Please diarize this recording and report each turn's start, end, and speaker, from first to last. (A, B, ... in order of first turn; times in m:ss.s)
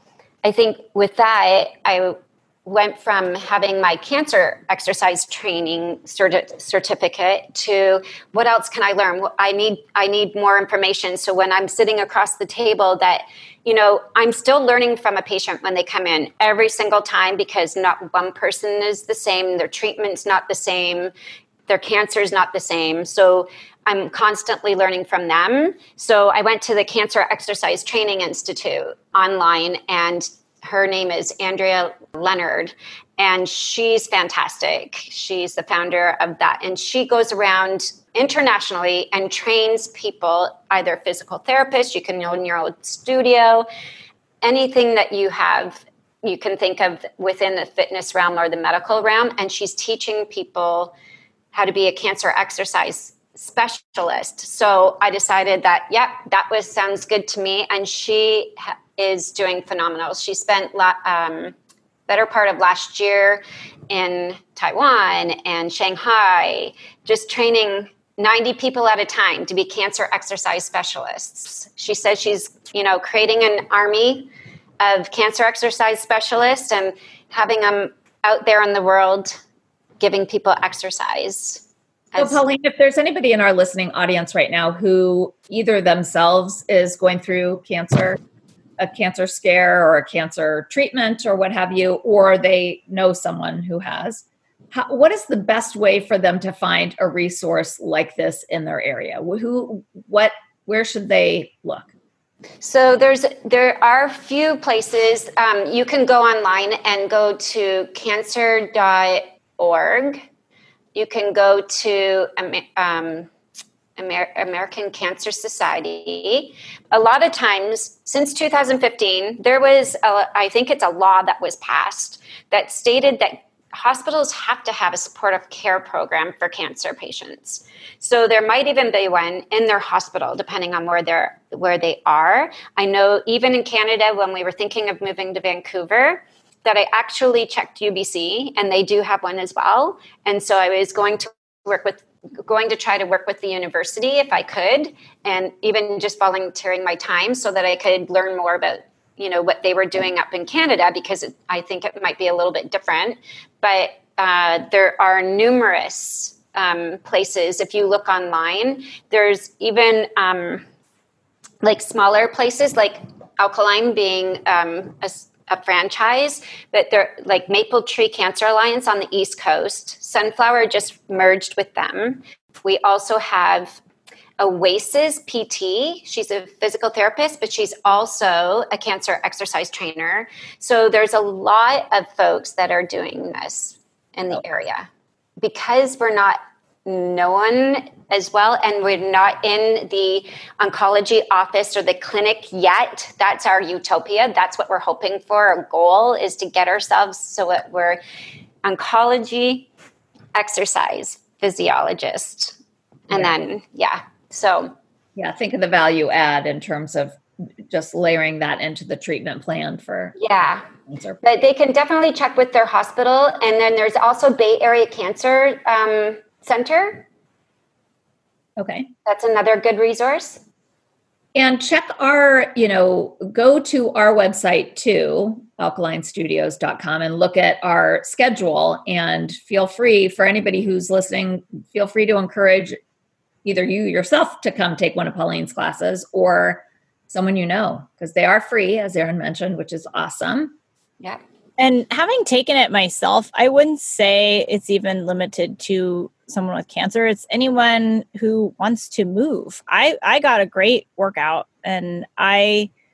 0:00.4-0:21.1 A
0:21.7-0:43.6 A
0:44.4-0:50.9 A
0:51.5-1:01.5 A
1:02.1-1:19.4 A
1:20.0-1:22.4 A
1:22.2-1:28.2 B
1:28.8-1:41.9 B
1:42.6-1:50.2 A
1:50.9-1:53.3 A
1:54.0-2:40.6 A
2:41.6-2:53.8 A
2:54.4-3:04.9 A
3:05.4-3:18.0 A
3:18.6-3:19.7 A
3:20.3-3:22.6 A
3:23.1-3:24.7 A
3:25.2-3:30.3 B
3:30.2-3:30.6 A
3:30.8-3:31.2 B
3:31.2-3:37.0 A
3:38.6-3:38.9 B
3:39.0-3:40.4 A
3:41.3-3:52.8 B
3:53.4-4:00.5 B
4:01.6-4:12.7 C